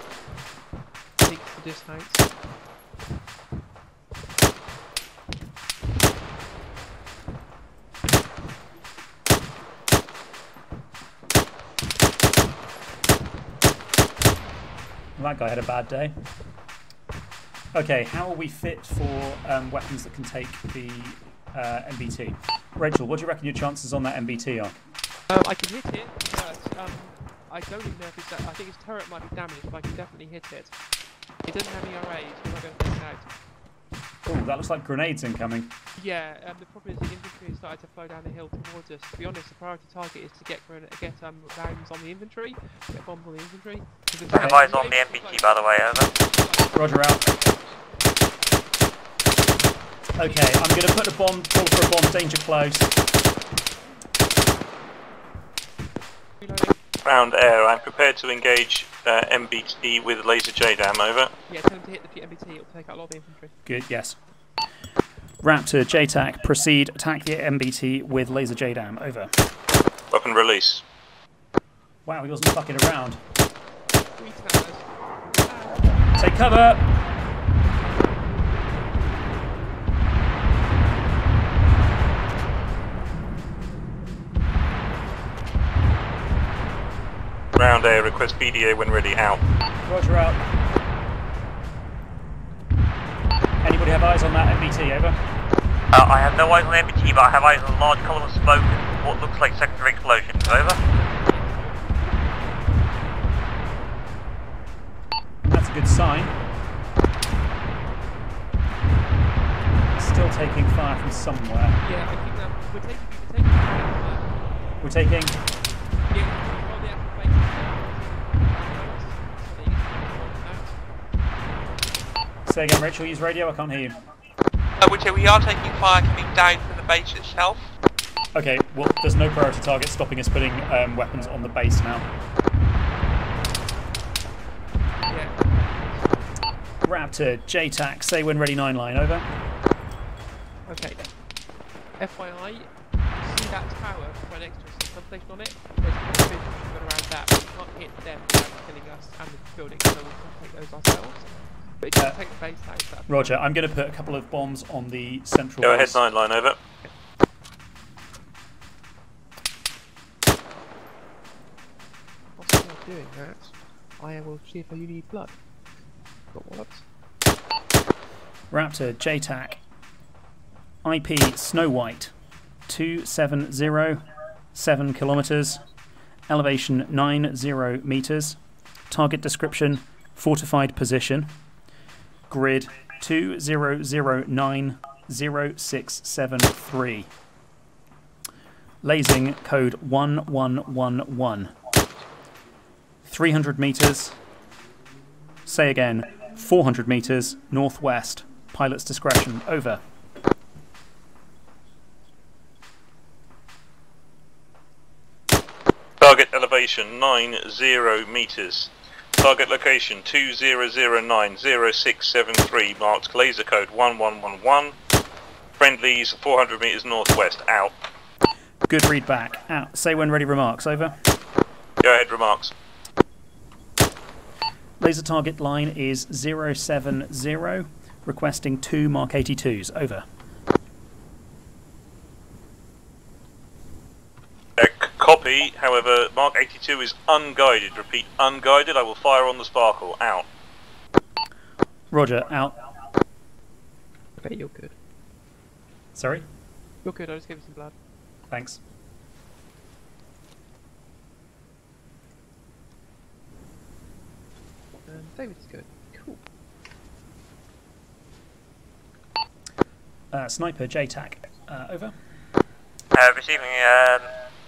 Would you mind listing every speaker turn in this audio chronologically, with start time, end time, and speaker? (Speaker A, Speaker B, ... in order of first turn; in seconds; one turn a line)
Speaker A: 1.2-2.3
Speaker B: 15.2-16.2
Speaker B: 17.7-24.8
Speaker A: 25.3-30.7
Speaker A: 31.4-33.3
Speaker B: 34.2-35.7
Speaker A: 36.0-47.3
Speaker C: 44.3-46.1
Speaker B: 44.3-44.6
Speaker B: 46.7-47.2
Speaker B: 50.1-52.9
Speaker A: 56.4-56.8
Speaker D: 57.0-61.3
Speaker A: 61.5-63.6
Speaker B: 63.6-64.2
Speaker B: 65.4-69.3
Speaker D: 70.1-70.8
Speaker B: 72.0-73.2
Speaker A: 74.2-76.1
Speaker B: 76.1-76.9
Speaker D: 87.5-89.4
Speaker B: 89.8-90.5
Speaker B: 93.6-95.2
Speaker C: 95.9-100.8
Speaker A: 100.4-102.2
Speaker B: 105.4-106.4
Speaker B: 109.9-111.8
Speaker A: 111.8-114.4
Speaker B: 114.8-115.4
Speaker A: 116.1-120.8
Speaker B: 122.5-124.0
Speaker E: 124.8-127.7
Speaker B: 128.3-132.1
Speaker A: 135.1-136.1
Speaker B: 136.8-139.3
Speaker A: 140.7-141.0
Speaker A: 142.0-153.4
Speaker B: 153.1-156.0
Speaker D: 155.6-156.6
Speaker A: 162.4-165.3
Speaker A: 166.3-166.8
Speaker B: 168.5-169.6
Speaker B: 170.8-172.1
Speaker B: 172.7-175.6
Speaker B: 176.3-178.4
Speaker B: 178.9-181.3
Speaker B: 182.3-187.1
Speaker B: 188.8-191.5
Speaker B: 193.0-194.2
Speaker B: 195.4-199.8
Speaker D: 206.0-214.8
Speaker D: 215.6-217.7
Speaker B: 218.7-221.0
Speaker D: 221.8-222.5
Speaker B: 224.8-230.1
Speaker D: 234.6-240.3
Speaker B: 241.9-242.6
Speaker A: 244.2-244.7
Speaker B: 245.9-246.3
Speaker A: 246.8-247.7
Speaker B: 248.3-248.6
Speaker A: 254.9-256.2
Speaker B: 260.1-261.9
Speaker C: 262.9-264.2